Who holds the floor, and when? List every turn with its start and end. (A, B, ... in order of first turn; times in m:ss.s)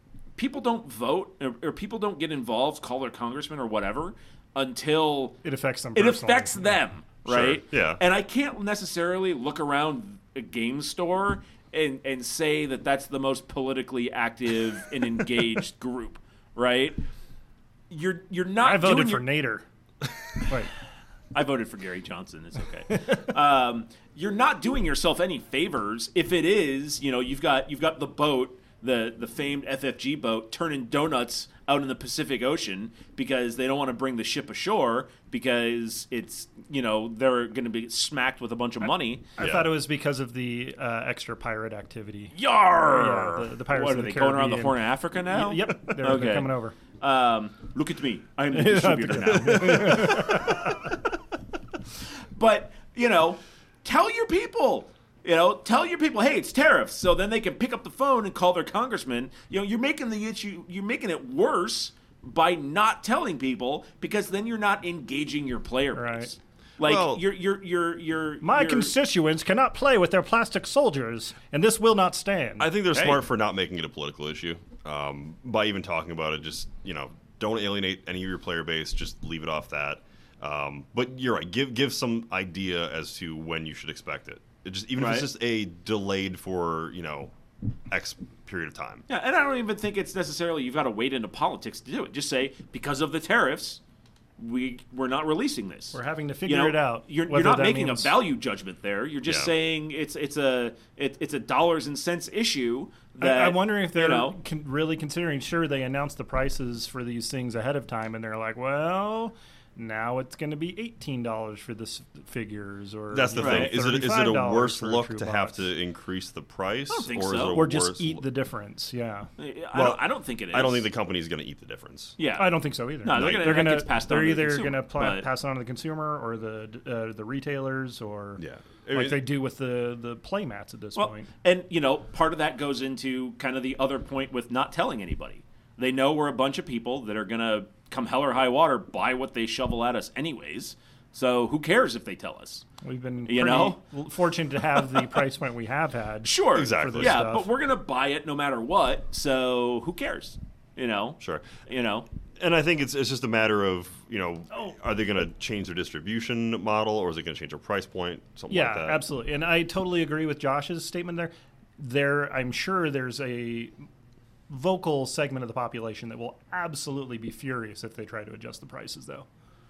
0:00.4-0:05.4 A
0:05.4-0:06.8 B
0:06.0-0:17.0 A
0:07.3-0:08.0 C
0:17.9-0:19.2 A
0:18.6-0:19.6 B
0:21.3-0:39.3 A
0:39.4-0:46.8 B
0:39.4-0:39.7 C
0:42.4-0:50.8 A
0:48.5-0:50.6 B
0:52.3-1:08.9 A
1:06.0-1:06.3 B
1:06.8-1:07.2 C
1:08.4-1:12.7 B
1:12.6-1:27.3 C
1:12.9-1:13.2 A
1:25.0-1:25.3 A
1:27.9-1:29.0 C
1:29.1-1:33.8 A
1:34.4-1:44.4 A
1:35.9-1:38.2 B
1:39.3-1:39.5 C
1:43.2-1:55.6 B
1:53.1-1:58.2 C
1:53.4-1:53.8 A
1:56.9-1:57.6 A
1:57.5-1:59.3 B
1:59.4-2:00.9 A
1:59.7-2:02.2 C
2:02.2-2:05.3 A
2:02.3-2:11.3 B
2:03.1-2:03.6 C
2:08.4-2:09.2 C
2:11.0-2:22.6 A
2:22.8-2:27.5 B
2:23.3-2:23.8 A
2:26.2-2:32.1 A
2:26.5-2:27.3 C
2:31.2-2:31.6 C
2:32.4-2:39.0 C
2:38.5-2:43.8 B
2:44.5-2:49.3 B